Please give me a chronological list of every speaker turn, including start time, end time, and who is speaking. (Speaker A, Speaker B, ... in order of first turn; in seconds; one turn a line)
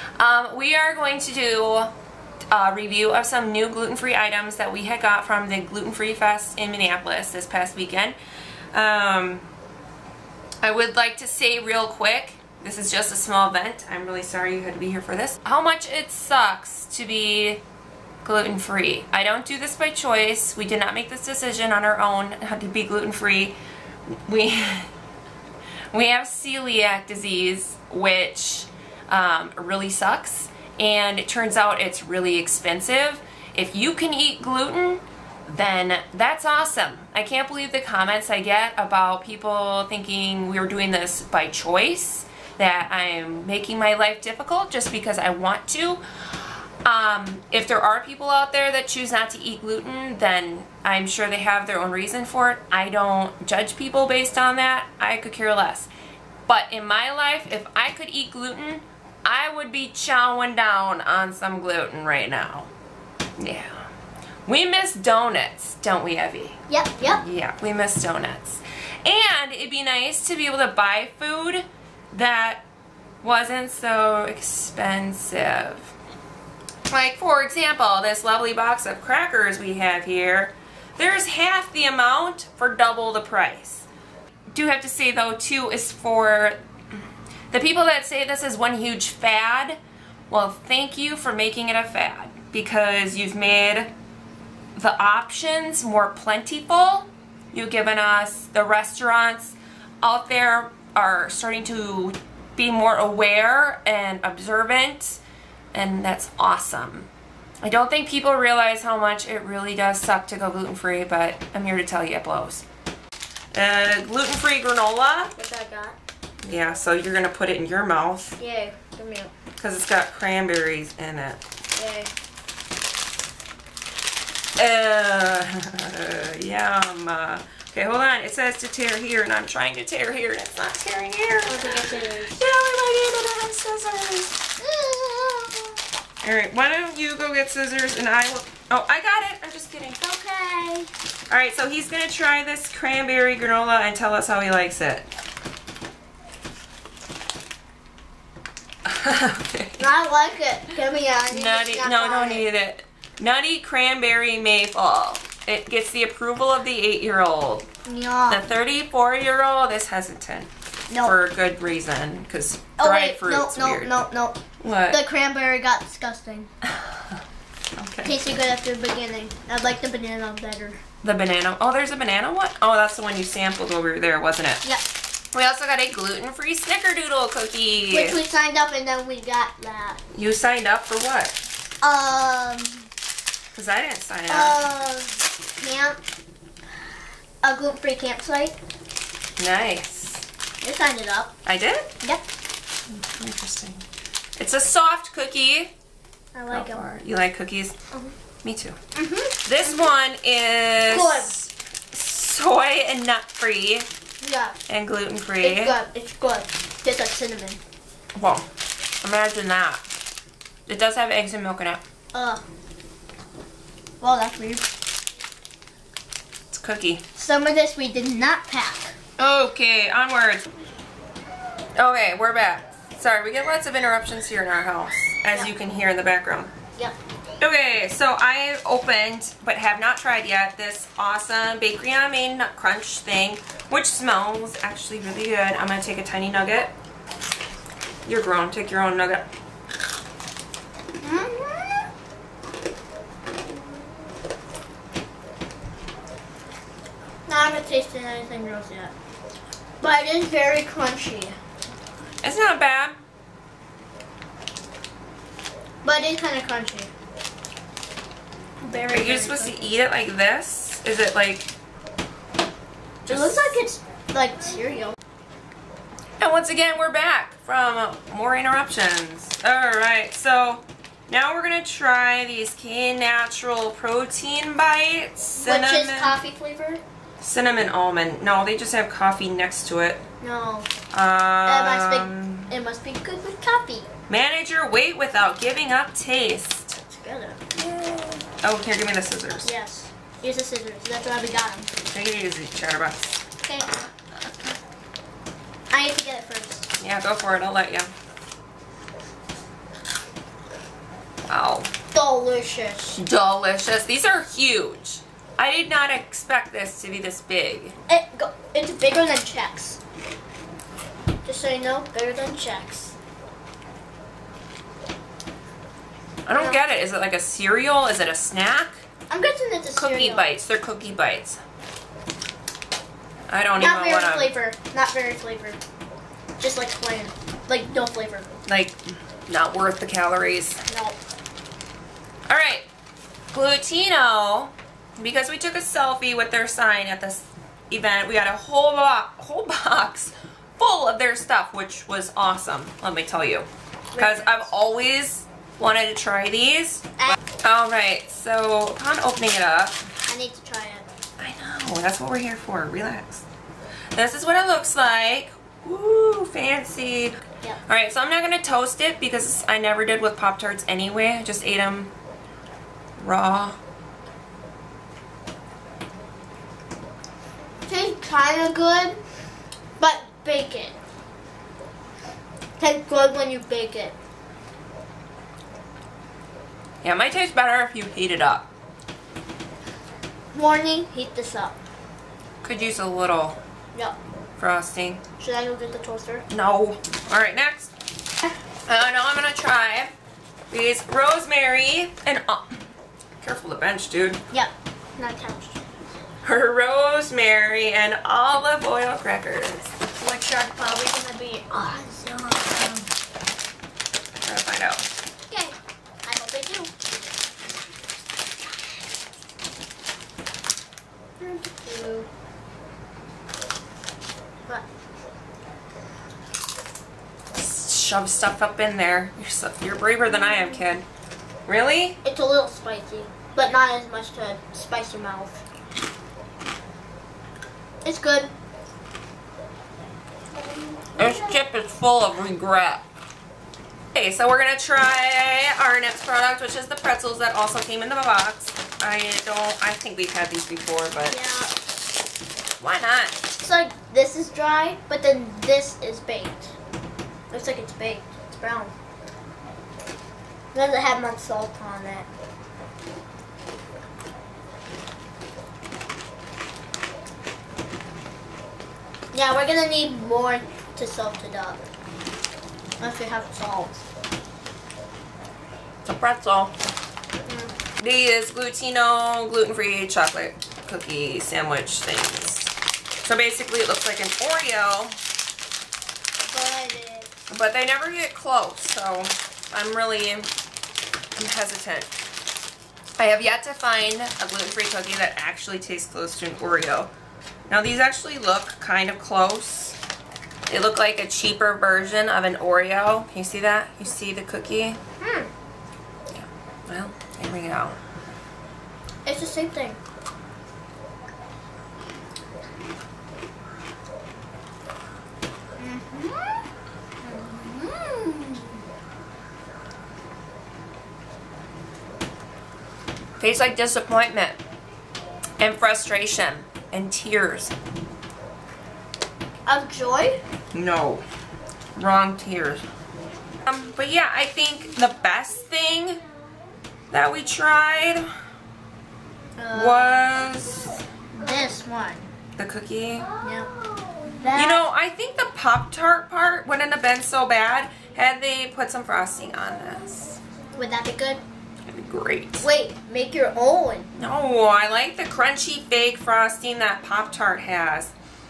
Speaker A: 0.2-1.9
Speaker A: 2.5-8.2
Speaker A: 8.7-9.5
Speaker A: 10.6-17.6
Speaker A: 18.2-23.6
Speaker A: 24.3-24.9
Speaker A: 25.9-55.9
Speaker A: 56.5-62.7
Speaker A: 63.4-63.9
Speaker A: 64.5-72.6
Speaker B: 66.7-67.2
Speaker A: 73.2-75.9
Speaker A: 76.9-83.9
Speaker A: 84.5-86.6
Speaker A: 87.5-89.8
Speaker A: 90.3-93.9
Speaker A: 94.8-105.2
Speaker A: 105.7-107.1
Speaker A: 107.6-112.6
Speaker A: 113.5-115.3
Speaker B: 115.4-116.0
Speaker A: 116.4-118.4
Speaker B: 118.4-119.3
Speaker A: 119.6-121.4
Speaker B: 121.7-122.1
Speaker A: 124.6-131.6
Speaker B: 131.5-132.4
Speaker A: 132.4-134.5
Speaker B: 134.6-135.8
Speaker A: 136.2-140.0
Speaker B: 140.0-140.9
Speaker A: 141.3-145.1
Speaker A: 148.8-149.8
Speaker B: 149.8-152.5
Speaker A: 151.3-157.7
Speaker B: 157.8-158.5
Speaker A: 158.3-163.9
Speaker B: 160.9-161.2
Speaker B: 162.8-166.5
Speaker A: 164.6-165.0
Speaker A: 167.8-168.2
Speaker B: 168.0-170.8
Speaker A: 171.0-174.6
Speaker A: 175.3-178.2
Speaker B: 177.9-180.0
Speaker A: 180.1-181.4
Speaker B: 181.8-182.9
Speaker A: 183.5-184.6
Speaker B: 184.3-186.0
Speaker B: 187.4-188.6
Speaker A: 189.4-190.3
Speaker B: 190.6-191.3
Speaker A: 191.4-191.9
Speaker A: 192.9-193.8
Speaker A: 194.4-195.7
Speaker B: 196.3-196.8
Speaker A: 196.5-197.8
Speaker A: 198.4-198.8
Speaker B: 198.9-199.9
Speaker A: 199.4-203.9
Speaker B: 200.9-201.3
Speaker B: 204.2-204.6
Speaker A: 204.7-205.8
Speaker B: 205.4-207.6
Speaker A: 208.2-208.5
Speaker A: 209.0-209.8
Speaker A: 210.7-211.8
Speaker B: 212.1-212.4
Speaker B: 214.0-214.7
Speaker A: 216.5-217.0
Speaker B: 217.2-219.0
Speaker A: 219.2-220.5
Speaker A: 221.8-226.5
Speaker A: 227.4-236.7
Speaker A: 238.1-239.3
Speaker B: 241.0-241.9
Speaker B: 247.3-248.9
Speaker B: 249.8-251.4
Speaker A: 252.2-253.0
Speaker B: 255.8-256.9
Speaker B: 258.6-259.8
Speaker A: 258.9-261.5
Speaker A: 263.1-263.6
Speaker B: 263.1-264.9
Speaker A: 266.2-276.2
Speaker B: 275.4-276.8
Speaker A: 277.2-280.0
Speaker B: 280.2-280.7
Speaker A: 280.9-282.5
Speaker B: 281.4-283.9
Speaker A: 284.1-286.8
Speaker B: 286.9-287.4
Speaker A: 287.6-289.5
Speaker B: 289.4-291.7
Speaker A: 291.8-293.2
Speaker B: 293.4-293.8
Speaker B: 295.7-296.7
Speaker A: 296.8-297.9
Speaker A: 301.3-301.7
Speaker B: 301.9-303.0
Speaker A: 302.9-307.8
Speaker B: 307.9-309.8
Speaker B: 311.2-312.9
Speaker A: 316.2-318.8
Speaker B: 319.1-320.3
Speaker A: 319.8-321.4
Speaker A: 323.3-324.3
Speaker B: 323.6-325.6
Speaker B: 326.4-328.3
Speaker A: 328.5-330.6
Speaker B: 330.7-331.0
Speaker A: 332.3-332.7
Speaker A: 333.3-349.9
Speaker B: 343.9-344.5
Speaker B: 350.1-350.9
Speaker A: 351.2-353.2
Speaker A: 353.9-361.9
Speaker A: 363.0-363.6
Speaker B: 367.7-369.0
Speaker B: 369.8-370.8
Speaker B: 372.6-373.9
Speaker A: 376.8-378.5
Speaker B: 380.3-381.6
Speaker A: 382.4-383.4
Speaker A: 384.4-385.0
Speaker B: 385.2-386.2
Speaker A: 386.3-387.7
Speaker A: 388.7-389.9
Speaker A: 390.5-392.6
Speaker A: 393.2-394.2
Speaker B: 394.3-395.6
Speaker A: 396.2-399.7
Speaker B: 400.0-402.9
Speaker A: 404.2-404.9
Speaker B: 405.3-406.7
Speaker B: 411.2-412.1
Speaker A: 417.3-420.9
Speaker A: 421.5-422.0
Speaker B: 422.0-425.4
Speaker B: 427.8-428.3
Speaker B: 430.4-431.4
Speaker A: 431.0-432.9
Speaker A: 433.9-441.2
Speaker B: 441.1-441.6
Speaker A: 442.6-443.2
Speaker B: 443.4-446.6
Speaker B: 447.3-448.7
Speaker B: 450.5-452.1
Speaker B: 459.1-461.6
Speaker B: 462.8-463.8
Speaker A: 465.9-466.5
Speaker B: 467.2-467.6
Speaker A: 467.8-472.5
Speaker A: 473.0-475.0
Speaker B: 476.3-477.1
Speaker A: 477.3-480.3
Speaker A: 481.2-481.9
Speaker A: 483.0-486.9
Speaker A: 487.5-489.8
Speaker A: 490.5-494.8
Speaker B: 495.0-495.3
Speaker A: 496.1-497.8
Speaker B: 499.1-499.8
Speaker B: 505.6-506.5
Speaker B: 507.0-508.6
Speaker A: 513.2-514.4
Speaker A: 515.4-517.5
Speaker B: 519.5-520.2
Speaker A: 520.5-521.0
Speaker A: 521.8-522.6
Speaker A: 523.5-526.0
Speaker A: 526.9-528.1
Speaker B: 529.4-530.1
Speaker A: 529.5-530.8
Speaker B: 531.1-532.1
Speaker A: 532.4-533.2
Speaker B: 533.2-533.5
Speaker B: 534.1-534.6
Speaker A: 534.3-540.2
Speaker B: 540.5-541.2
Speaker A: 541.7-542.5
Speaker B: 542.4-543.9
Speaker A: 544.0-547.9